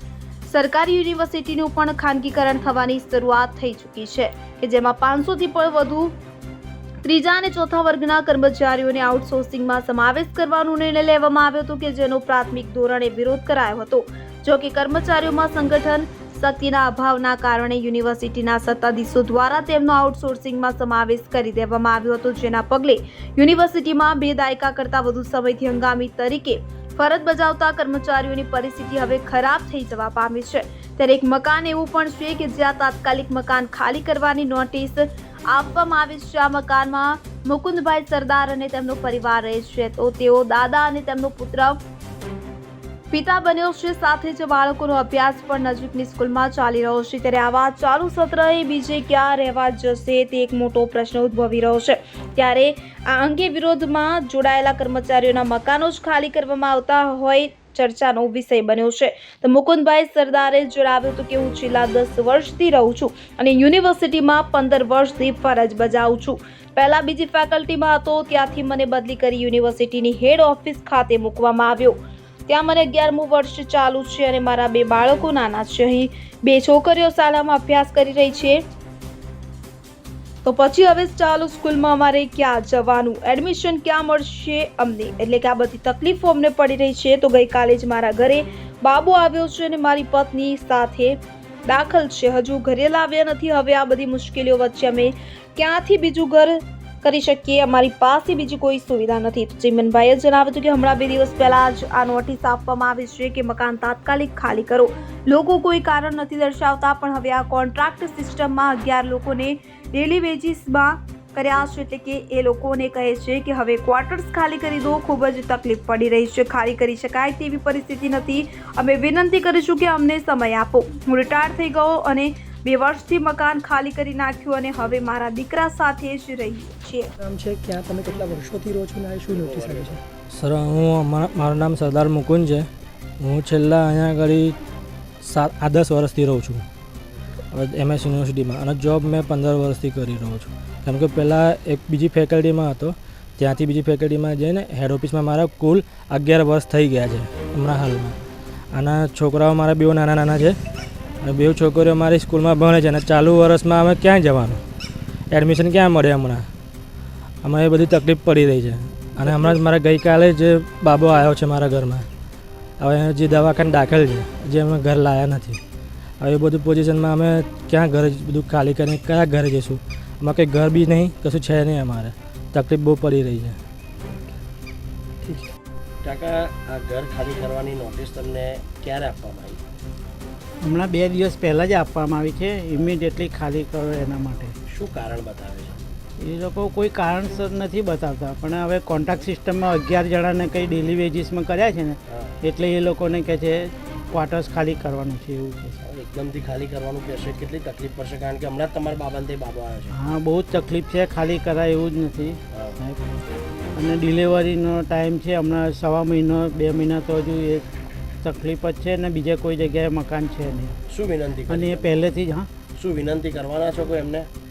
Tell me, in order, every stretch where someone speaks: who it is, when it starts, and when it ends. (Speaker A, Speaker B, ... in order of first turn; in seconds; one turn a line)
Speaker A: 0.4-6.1
Speaker A: 7.0-41.8
Speaker A: 43.1-72.0
Speaker A: 72.5-78.6
Speaker A: 80.4-127.1
Speaker B: 127.2-130.0
Speaker C: 129.3-130.0
Speaker D: 130.3-132.7
Speaker D: 133.2-134.5
Speaker D: 135.2-136.6
Speaker D: 137.5-148.1
Speaker D: 148.7-150.6
Speaker D: 151.2-154.6
Speaker D: 155.3-156.4
Speaker D: 157.4-162.1
Speaker D: 162.8-165.6
Speaker D: 166.2-173.6
Speaker B: 175.2-175.5
Speaker C: 176.0-179.6
Speaker E: 180.6-184.5
Speaker C: 184.7-185.8
Speaker E: 186.2-195.8
Speaker C: 195.8-199.9
Speaker E: 199.9-203.0
Speaker E: 203.7-207.7
Speaker E: 208.2-210.7
Speaker C: 210.9-211.9
Speaker E: 211.5-212.5
Speaker C: 212.8-214.3